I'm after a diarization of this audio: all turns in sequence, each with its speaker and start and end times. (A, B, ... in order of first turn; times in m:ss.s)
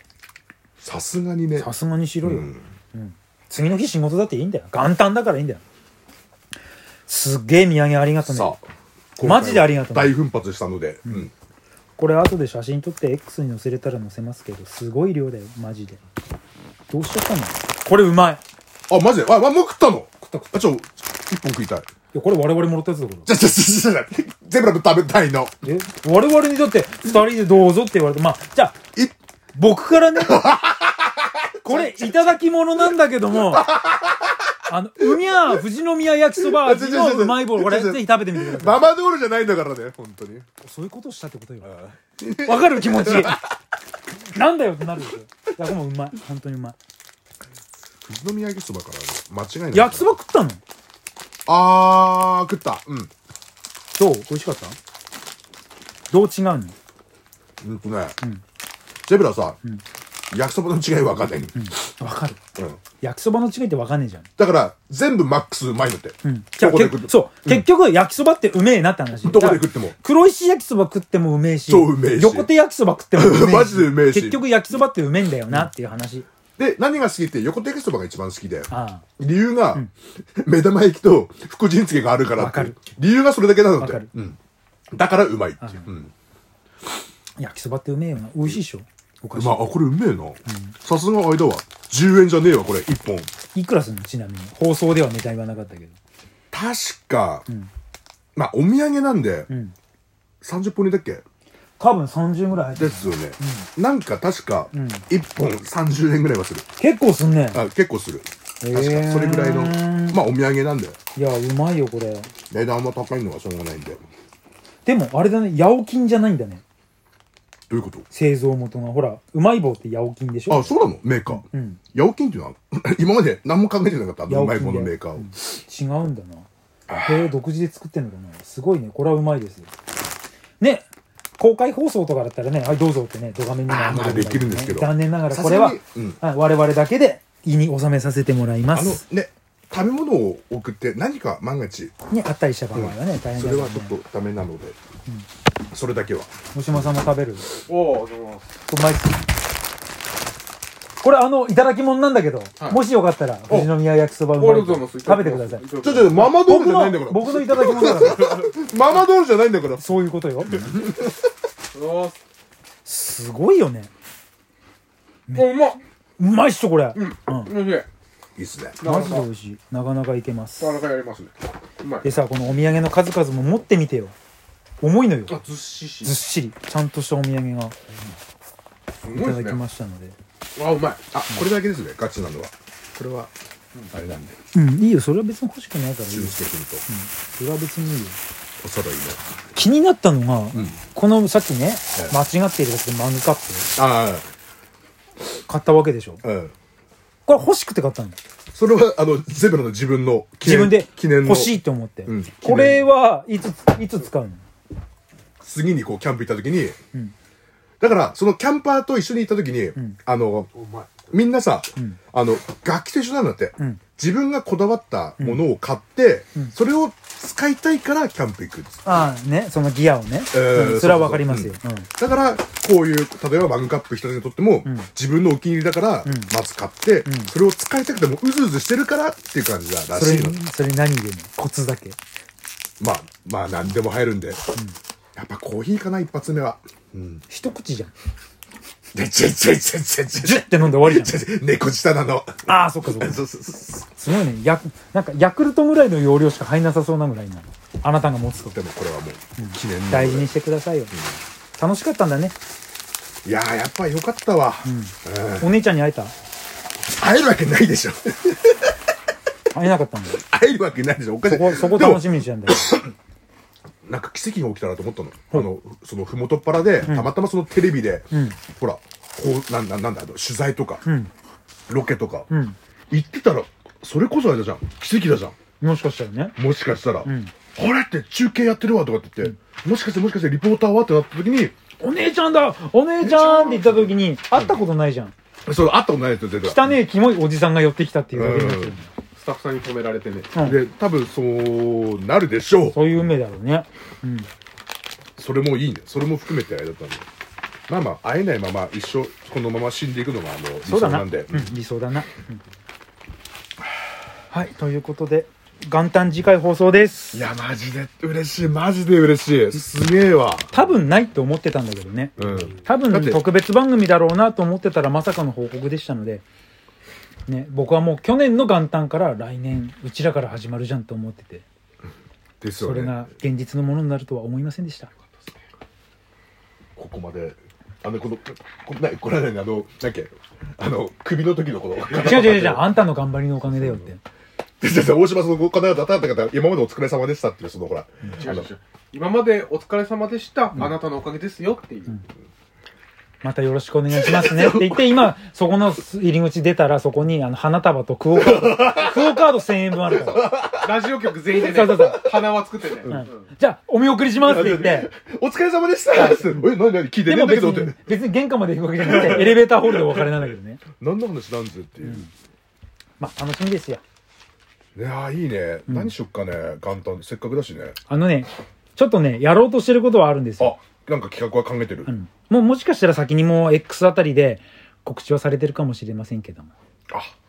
0:00.8-0:01.7 A
0:01.6-0:05.6 B
0:02.2-0:02.6 A
0:07.1-0:08.5 B
0:08.2-0:08.6 A
0:09.2-0:11.3 A
0:09.2-0:10.1 B
0:12.0-0:16.0 B
0:16.9-0:18.4 B
0:18.9-0:21.9 A
0:20.2-0:20.6 B
0:22.1-0:23.3 B
0:23.2-0:25.5 A
0:25.6-0:28.8 B
0:29.5-0:30.5 B
0:30.1-0:32.3 A
0:31.6-0:33.7 B
0:33.5-0:34.3 A
0:34.7-0:38.8 B
0:35.0-0:35.6 A
0:36.4-0:40.4 A
0:40.6-0:41.7 B
0:41.6-0:43.5 A
0:42.4-0:43.4 B
0:44.2-0:46.8 B
0:48.0-0:50.1 A
0:49.7-0:50.6 B
0:51.4-0:53.1 A
0:53.9-0:54.8 B
0:56.1-0:56.7 B
0:57.6-0:58.2 A
0:59.0-0:59.6 A
1:00.3-1:01.7 A
1:01.5-1:02.4 B
1:03.0-1:04.3 B
1:04.4-1:07.6 A
1:06.2-1:16.3 B
1:09.2-1:10.0 A
1:11.7-1:12.5 A
1:13.2-1:14.4 A
1:16.6-1:19.8 A
1:18.7-1:19.0 B
1:20.4-1:24.4 A
1:22.4-1:22.8 B
1:23.8-1:24.1 B
1:24.9-1:26.1 A
1:25.6-1:25.9 B
1:27.4-1:29.7 B
1:29.3-1:33.3 A
1:30.5-1:30.7 B
1:33.5-1:35.9 B
1:36.5-1:37.4 A
1:38.3-1:39.5 A
1:39.5-1:39.7 B
1:40.4-1:41.2 A
1:41.8-1:43.7 B
1:42.8-1:46.6 A
1:44.7-1:45.0 B
1:46.8-1:47.6 B
1:47.5-1:51.0 A
1:48.6-1:50.2 B
1:51.2-1:52.3 B
1:52.5-1:54.0 A
1:54.8-1:56.6 B
1:57.7-1:58.0 A
1:58.1-2:00.7 B
2:00.5-2:05.3 A
2:01.3-2:01.8 B
2:04.3-2:06.5 B
2:06.9-2:07.3 A
2:07.0-2:09.7 B
2:10.6-2:10.8 B
2:11.4-2:19.0 B
2:13.7-2:16.2 A
2:18.7-2:21.9 A
2:22.1-2:23.9 B
2:22.7-2:24.8 A
2:25.7-2:26.8 A
2:26.5-2:27.5 B
2:27.7-2:28.5 C
2:28.7-2:29.2 B
2:31.0-2:38.5 B
2:34.3-2:36.3 C
2:35.8-2:39.9 A
2:39.8-2:40.7 B
2:40.5-2:41.2 A
2:41.7-2:42.2 C
2:42.8-2:43.9 B
2:45.3-2:45.6 B
2:45.3-2:45.8 C
2:46.2-2:47.5 B
2:46.9-2:47.9 C
2:48.4-2:48.8 A
2:48.8-2:49.2 C
2:48.8-2:50.8 B
2:50.6-2:52.1 C
2:52.0-2:54.1 B
2:54.8-2:55.4 B
2:55.3-2:56.2 C
2:56.0-2:57.7 B
2:59.0-2:59.6 C
2:59.1-3:00.2 B
3:00.6-3:01.1 C
3:01.1-3:02.5 A
3:03.0-3:03.9 C
3:03.9-3:04.4 A
3:04.5-3:08.2 B
3:06.1-3:06.8 A
3:08.6-3:09.2 A
3:09.5-3:13.7 B
3:13.8-3:14.3 A
3:15.5-3:16.2 B
3:16.2-3:16.5 A
3:17.2-3:18.2 B
3:18.5-3:22.8 A
3:20.4-3:24.4 B
3:25.4-3:26.8 A
3:27.8-3:38.8 A
3:35.2-3:35.4 B
3:38.8-3:41.9 B
3:40.3-3:50.4 A
3:46.0-3:46.3 B
3:47.0-3:47.3 B
3:49.9-3:52.0 B
3:52.8-3:54.4 A
3:55.2-3:57.2 A
3:57.3-3:57.9 B
3:58.9-4:03.9 A
4:00.1-4:01.1 B
4:02.5-4:03.2 B
4:03.9-4:08.6 B
4:08.4-4:10.3 A
4:09.4-4:10.9 B
4:10.9-4:11.2 A
4:11.6-4:12.4 B
4:13.2-4:15.5 A
4:14.6-4:16.1 B
4:16.9-4:18.7 A
4:19.5-4:20.2 B
4:20.1-4:22.9 A
4:21.2-4:22.7 B
4:23.8-4:30.8 A
4:28.1-4:28.4 B
4:30.8-4:31.1 B
4:31.7-4:32.3 A
4:32.3-4:32.6 B
4:32.9-4:35.3 A
4:35.6-4:36.4 B
4:36.4-4:41.5 A
4:37.0-4:37.3 B
4:41.8-4:45.1 B
4:43.0-4:44.6 A
4:45.4-4:46.8 A
4:46.4-4:48.9 B
4:48.1-4:48.8 A
4:49.1-4:50.3 C
4:50.4-4:52.8 A
4:52.7-4:54.3 B
4:55.2-4:57.0 A
4:57.7-5:01.5 A
5:00.6-5:02.4 B
5:04.3-5:07.2 B
5:07.1-5:10.5 A
5:10.5-5:16.2 B
5:12.2-5:13.2 A
5:17.3-5:21.4 B
5:22.4-5:23.0 A
5:22.6-5:24.9 B
5:26.8-5:32.7 A
5:31.9-5:34.0 B
5:33.4-5:33.9 A
5:34.6-5:38.5 A
5:38.2-5:42.0 C
5:43.2-5:50.3 B
5:43.9-5:44.9 A
5:48.1-5:49.2 A
5:49.9-5:50.8 A
5:50.6-5:53.2 C
5:51.3-5:52.0 B
5:52.8-5:53.1 A
5:52.8-5:54.9 B
5:54.2-5:57.8 A
5:57.0-6:00.6 B
5:58.8-5:59.4 A
6:00.8-6:02.1 A
6:01.8-6:02.1 B
6:03.0-6:03.8 B
6:04.7-6:07.8 A
6:07.9-6:10.6 B
6:10.4-6:11.9 A
6:11.9-6:16.5 B